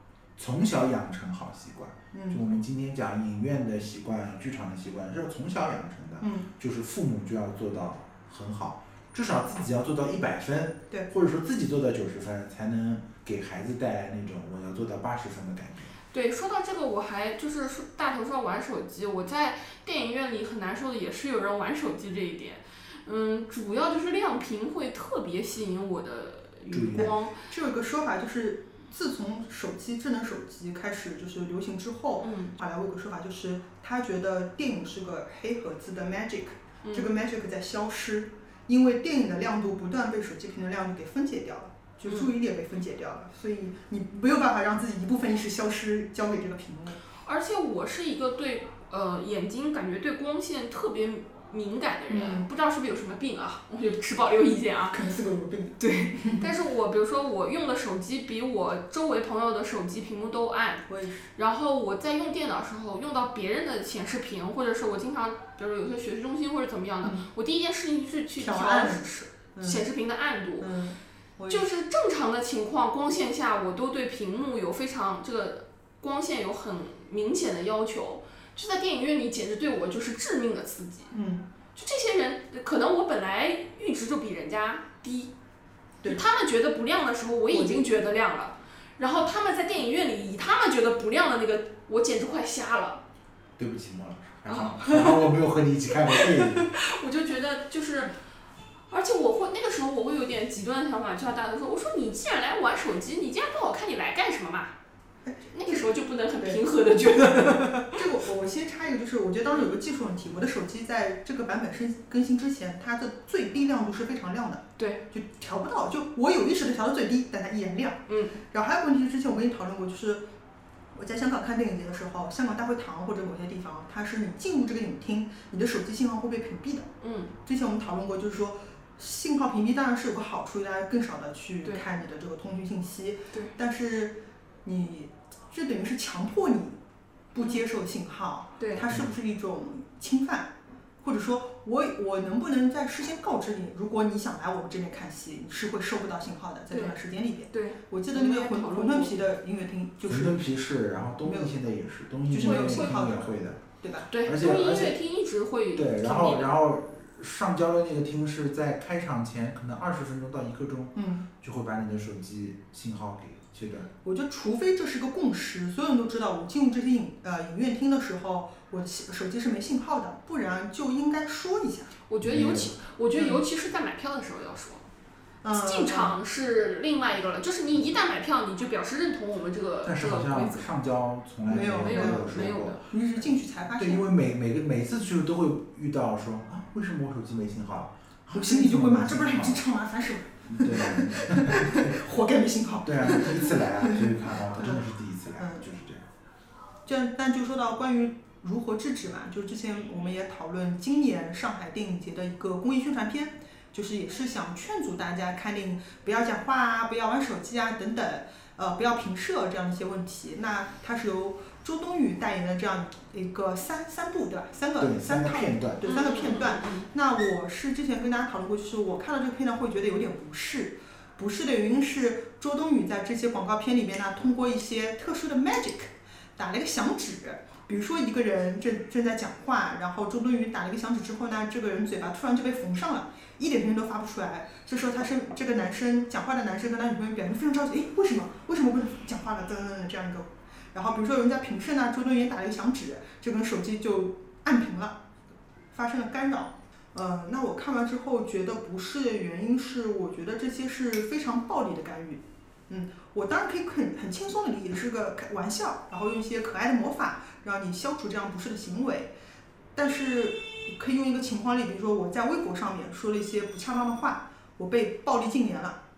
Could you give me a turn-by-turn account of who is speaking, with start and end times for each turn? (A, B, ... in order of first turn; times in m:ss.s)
0:00.4-0:15.9 A
0:02.1-0:02.4 B
0:06.2-0:06.5 B
0:16.1-0:27.4 C
0:26.7-0:27.1 A
0:26.9-0:47.0 B
0:32.2-0:32.5 C
0:47.2-0:55.0 C
0:52.1-0:52.4 B
0:54.9-0:56.5 B
0:55.8-1:10.7 C
1:00.9-1:01.2 B
1:08.4-1:09.8 B
1:10.6-1:11.6 B
1:11.5-1:21.1 C
1:21.1-1:21.4 B
1:21.7-1:25.3 C
1:26.0-1:33.0 C
1:27.5-1:27.8 B
1:33.6-1:36.7 A
1:34.5-1:35.0 C
1:36.6-1:38.1 C
1:38.9-1:44.7 C
1:45.2-1:45.9 B
1:45.5-1:48.0 C
1:47.5-2:00.2 B
1:58.1-1:58.4 C
2:00.9-2:06.9 B
2:07.0-2:07.3 C
2:07.4-2:16.8 B
2:17.3-2:20.5 B
2:21.0-2:30.5 B
2:26.7-2:27.0 C
2:27.5-2:29.2 C
2:30.0-2:33.6 A
2:31.2-2:31.5 B
2:32.3-2:34.1 B
2:32.4-2:33.0 C
2:34.1-2:36.5 C
2:34.2-2:35.0 A
2:35.7-2:43.9 A
2:40.9-2:41.2 B
2:44.0-2:51.9 B
2:52.1-2:54.8 C
2:52.2-2:52.7 A
2:53.1-2:53.4 B
2:55.4-2:56.2 B
2:55.5-3:00.7 C
2:59.8-3:02.8 A
3:01.5-3:04.0 B
3:01.8-3:02.8 C
3:03.8-3:09.6 A
3:08.3-3:14.8 B
3:10.5-3:12.0 A
3:12.8-3:16.1 A
3:15.4-3:15.6 B
3:16.8-4:05.0 B
3:34.8-3:35.8 A
3:35.8-3:36.9 C
4:05.7-4:19.1 B
4:19.7-4:25.8 B